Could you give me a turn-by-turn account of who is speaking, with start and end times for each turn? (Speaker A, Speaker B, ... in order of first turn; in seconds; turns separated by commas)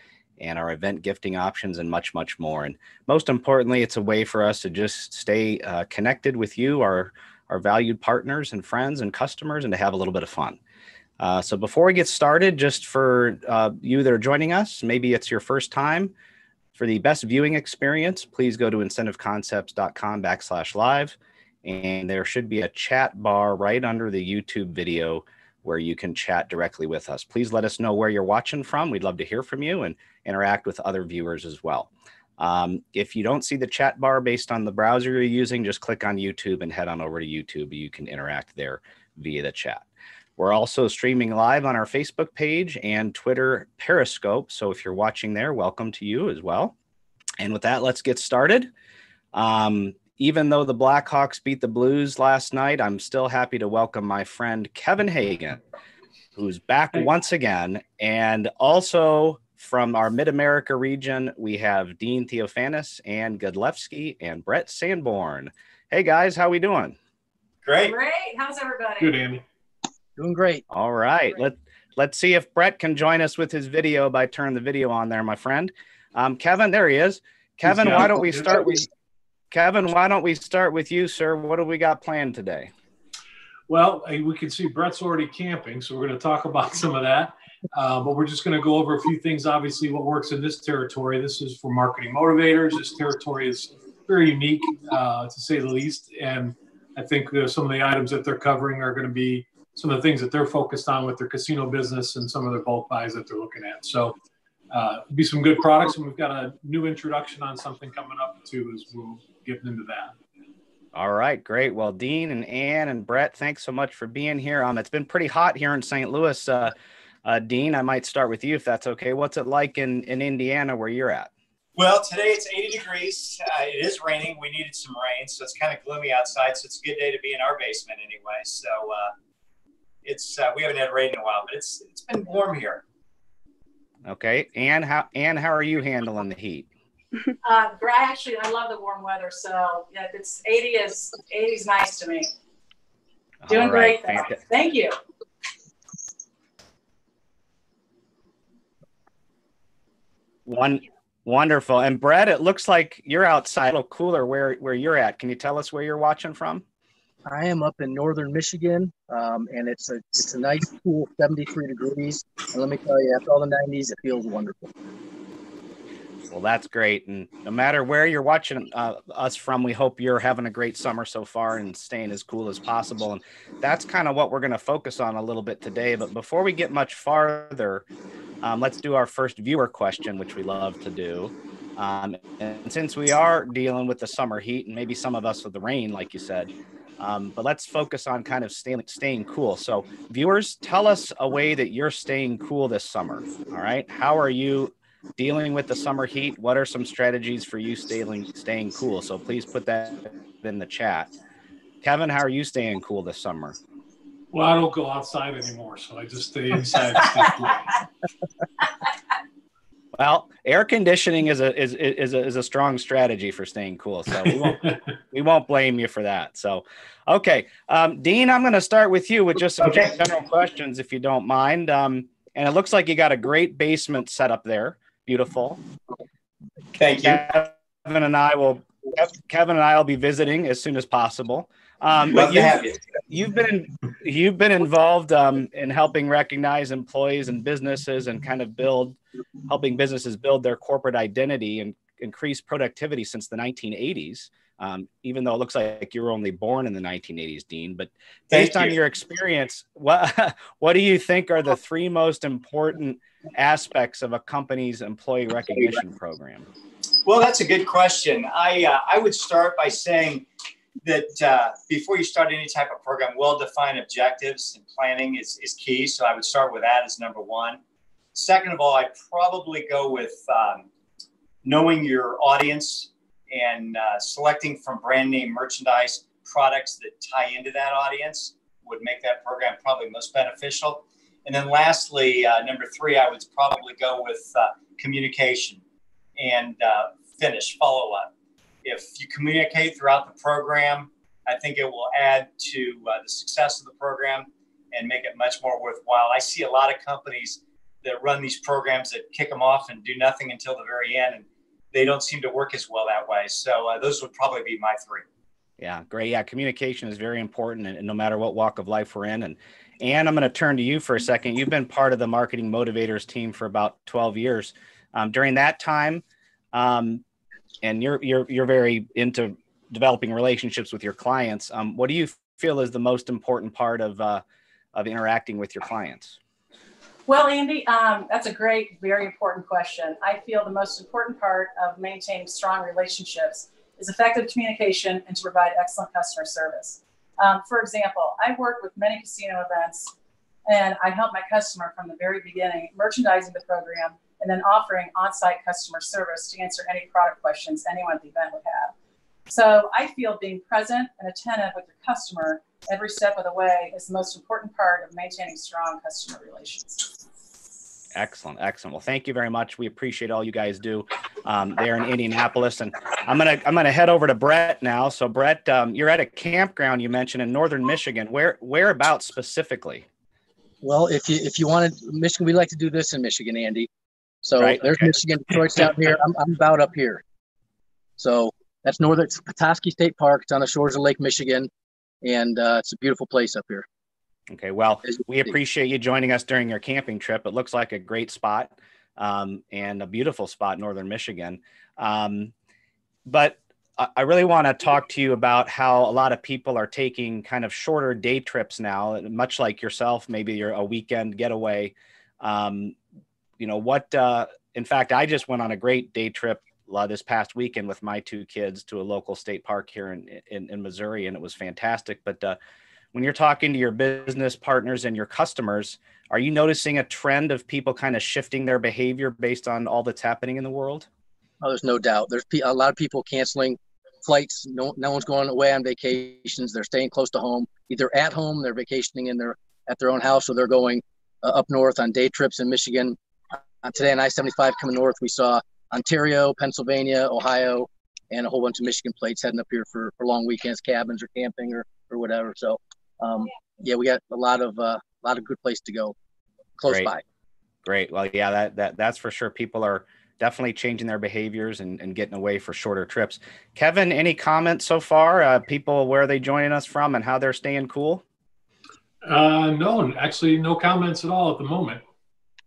Speaker A: 0.4-10.6, Speaker A: 11.2-16.1, Speaker A: 16.8-39.8, Speaker A: 40.4-46.7, Speaker A: 47.4-48.7, Speaker A: 49.3-55.6, Speaker A: 56.3-67.0, Speaker B: 67.6-67.9, Speaker C: 67.8-69.1, Speaker D: 69.0-69.4, Speaker E: 70.2-70.6, Speaker A: 70.7-78.9, Speaker D: 77.7-78.6, Speaker A: 79.5-82.7, Speaker D: 83.7-104.2, Speaker D: 104.7-110.1, Speaker A: 110.9-121.3, Speaker B: 121.8-129.1, Speaker B: 130.0-132.8, Speaker A: 134.0-136.7, Speaker C: 137.4-142.3, Speaker A: 143.4-144.3, Speaker C: 143.5-144.9, Speaker A: 150.4-156.6, Speaker E: 157.3-164.7, Speaker A: 166.3-177.8, Speaker A: 178.4-201.1, Speaker A: 201.8-203.6, Speaker D: 204.3-207.7, Speaker A: 209.9-225.6, Speaker B: 219.6-219.9, Speaker B: 226.8-227.2, Speaker A: 227.0-256.5, Speaker B: 232.1-232.8, Speaker B: 248.3-248.8, Speaker B: 257.0-260.3, Speaker B: 260.8-267.6, Speaker B: 268.1-270.7, Speaker B: 271.4-285.6, Speaker B: 286.2-288.1, Speaker B: 288.6-305.0, Speaker A: 305.6-317.0, Speaker A: 317.6-324.2, Speaker A: 324.7-326.2, Speaker C: 327.1-339.9, Speaker C: 340.5-348.7, Speaker C: 349.3-356.9, Speaker A: 357.9-369.9, Speaker E: 370.6-373.7, Speaker E: 374.2-377.0, Speaker A: 374.4-374.9, Speaker E: 378.0-381.5, Speaker E: 382.0-383.6, Speaker A: 384.3-392.3, Speaker A: 393.1-402.8, Speaker A: 403.4-412.4, Speaker A: 412.9-420.9, Speaker E: 421.4-433.0, Speaker E: 433.6-445.9, Speaker E: 446.6-447.0, Speaker A: 447.6-458.0, Speaker D: 459.0-461.8